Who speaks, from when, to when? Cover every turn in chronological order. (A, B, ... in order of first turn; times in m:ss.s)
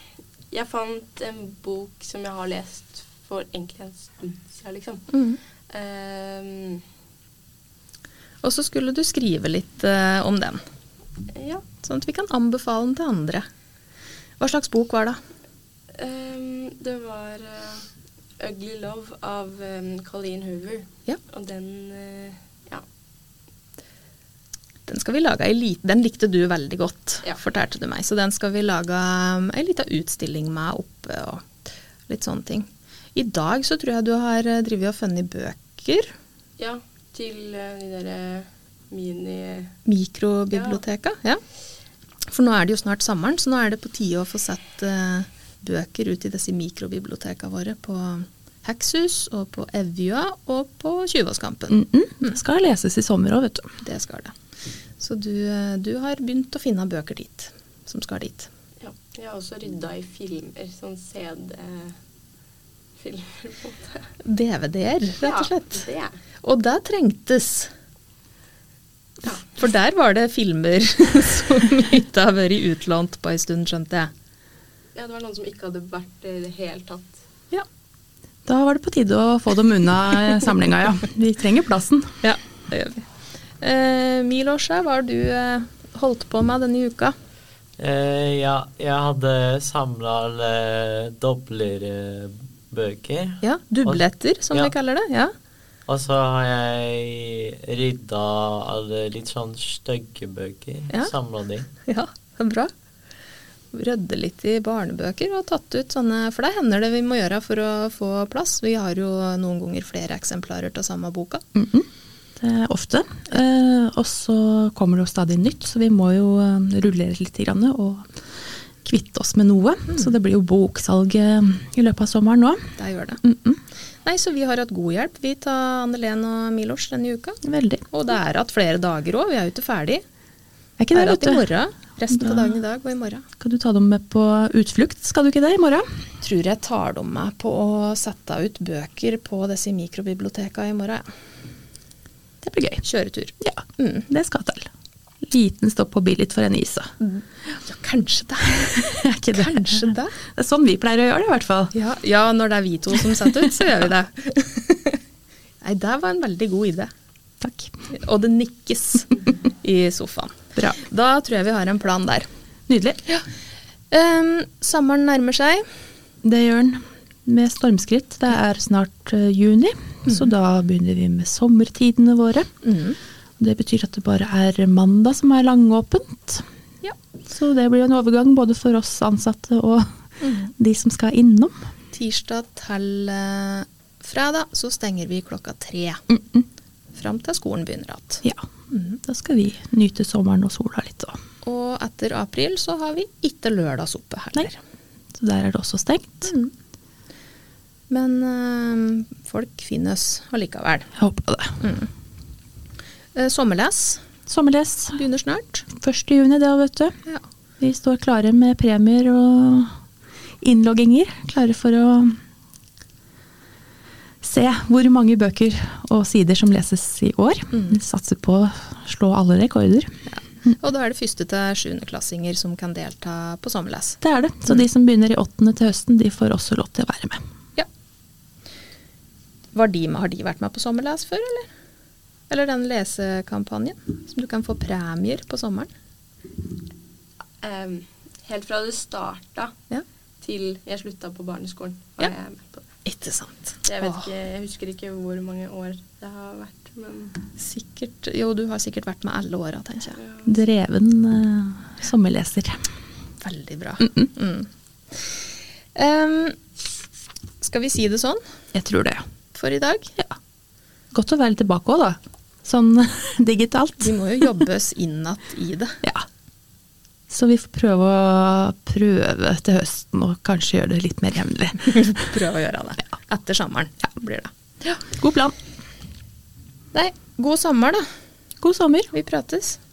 0:00.5-0:05.0 A
0:05.1-0:05.4 B
0:05.7-0:06.8 A
0:08.4-0:10.6 B
0:11.3-0:11.6 A
0:11.8-0:13.4 B
0:14.4-0:15.2 B
0:16.0-0:17.8 A
0:18.4-0:22.8 A
0:24.9-0:31.5 B
0:32.1-0:36.1 B
0:36.6-0:39.7 A
0:39.8-0:41.4 B
0:40.5-0:40.8 A
0:42.3-0:52.3 B
0:51.7-0:53.7 C
0:53.8-0:54.3 B
0:55.0-0:58.5 B
0:58.8-1:02.0 A
1:03.0-1:04.1 A
1:04.2-1:05.8 B
1:05.2-1:06.2 A
1:06.4-1:07.7 B
1:09.3-1:14.1 B
1:14.9-1:17.2 A
1:18.4-1:22.1 C
1:22.2-1:23.0 B
1:23.6-1:27.1 B
1:27.8-1:34.7 D
1:33.4-1:35.3 B
1:35.9-1:41.7 D
1:41.8-1:42.7 B
1:43.7-1:51.4 B
1:51.5-1:51.9 C
1:52.4-1:58.0 C
1:58.8-2:02.6 C
2:02.8-2:03.2 B
2:03.2-2:03.6 C
2:04.0-2:07.4 B
2:07.4-2:07.8 C
2:07.9-2:10.0 B
2:10.8-2:11.4 C
2:10.9-2:13.2 B
2:13.4-2:15.8 C
2:16.2-2:21.0 B
2:22.4-2:22.8 C
2:22.8-2:24.0 B
2:23.4-2:24.7 C
2:25.3-2:26.9 C
2:27.0-2:28.8 B
2:28.6-2:31.7 C
2:29.3-2:30.1 B
2:31.7-2:35.0 B
2:35.6-2:36.9 B
2:37.4-2:37.7 C
2:37.9-2:42.2 B
2:42.7-2:43.0 C
2:43.9-2:45.6 B
2:46.2-2:52.5 C
2:52.6-2:53.0 B
2:53.4-2:56.4 C
2:57.3-2:59.9 C
3:00.2-3:00.5 B
3:00.6-3:01.6 C
3:01.9-3:06.0 B
3:06.1-3:06.4 C
3:06.9-3:09.0 B
3:09.0-3:11.2 C
3:11.4-3:14.6 B
3:15.2-3:16.3 C
3:16.2-3:16.5 B
3:17.9-3:20.9 B
3:21.0-3:21.6 C
3:21.6-3:21.9 B
3:23.1-3:24.1 B
3:24.3-3:25.0 C
3:24.9-3:25.7 B
3:25.8-3:26.9 C
3:27.6-3:29.7 C
3:30.4-3:32.2 C
3:34.2-3:39.9 C
3:40.1-3:44.6 B
3:44.0-3:47.2 C
3:49.5-3:51.5 B
3:52.3-3:55.7 B
3:57.4-3:59.5 A
4:00.2-4:02.6 A
4:02.8-4:04.1 B
4:03.7-4:07.2 A
4:07.4-4:10.0 B
4:10.0-4:10.3 A
4:10.2-4:12.6 C
4:13.2-4:15.1 B
4:15.8-4:16.4 B
4:17.4-4:18.2 B
4:18.5-4:19.0 C
4:19.3-4:19.9 B
4:20.9-4:23.9 C
4:23.8-4:25.8 B
4:27.1-4:31.9 C
4:31.7-4:34.8 B
4:34.9-4:35.3 C
4:36.7-4:37.8 B
4:38.4-4:38.9 C
4:38.9-4:39.6 B